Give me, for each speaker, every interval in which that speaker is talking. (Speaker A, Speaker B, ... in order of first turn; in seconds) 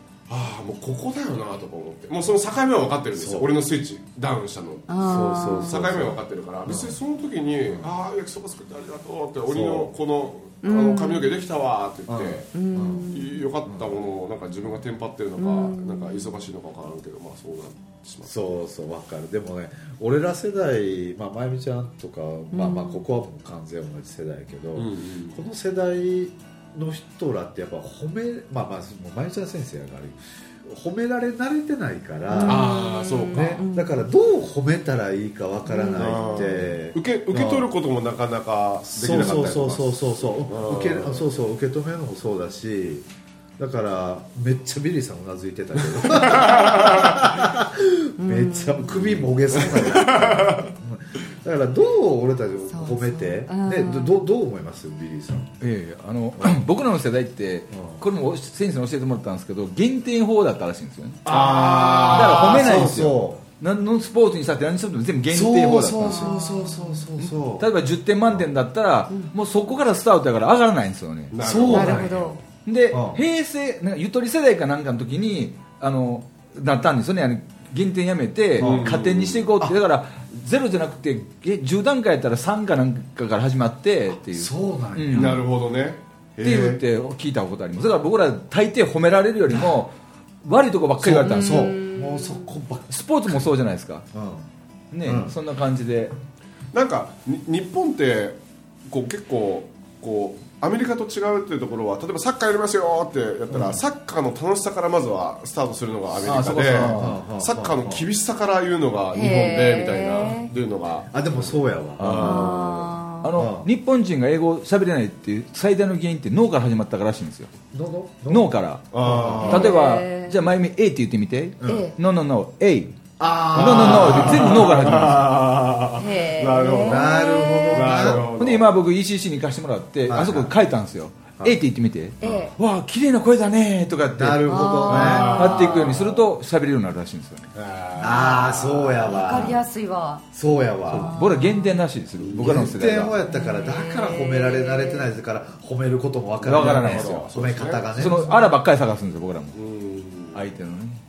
Speaker A: 0.3-12.5, 13.1-18.4, 24.8-25.4, 32.4-33.6, 36.0-41.3, 46.0-47.2, 49.1-50.7, 61.3-62.9, 71.3-72.2, 78.6-79.5, 85.1-86.8, 96.7-113.0, 118.9-119.8, 123.5-128.8, 134.9-136.3, 137.6-139.1, 142.2-142.7, 146.4-148.2, 149.5-150.4
Speaker B: 3.1-3.5, 5.0-7.0, 7.7-7.9, 9.5-9.9, 12.1-13.1, 13.7-13.9, 18.2-32.8, 33.3-37.7, 38.9-55.5, 56.4-56.6, 57.7-58.0, 61.3-63.4, 65.3-67.8, 71.4-73.2, 78.6-79.0, 84.3-85.4, 89.5-89.8, 91.0-93.5, 94.1-94.5, 95.0-95.4, 103.5-103.8, 106.3-108.1, 111.1-112.5, 113.3-113.7, 117.7-119.8, 123.2-125.1, 126.8-128.3, 130.1-130.6, 134.1-135.6, 138.0-139.6, 140.3-141.2, 142.4-148.5
Speaker C: 4.9-5.8, 10.6-11.3, 12.5-13.4, 15.4-16.3, 22.5-23.0, 32.3-34.0, 35.7-36.7, 48.2-49.1, 52.7-54.2, 61.5-62.1, 66.0-67.1, 71.7-72.4, 91.2-92.5, 109.1-110.5, 112.2-113.3, 119.5-120.4, 121.6-122.0, 126.0-128.0, 132.2-132.5, 134.5-136.0, 138.0-140.2, 140.9-141.8, 143.2-145.2
Speaker D: 55.6-61.2, 62.1-66.4, 67.2-71.4, 72.7-85.4, 86.4-91.8, 92.9-94.1, 94.9-96.2, 106.2-107.2, 112.0-112.6, 113.2-117.5, 118.3-125.4, 128.3-137.5, 140.9-143.2, 146.4-147.3, 147.9-149.6, 150.3-151.0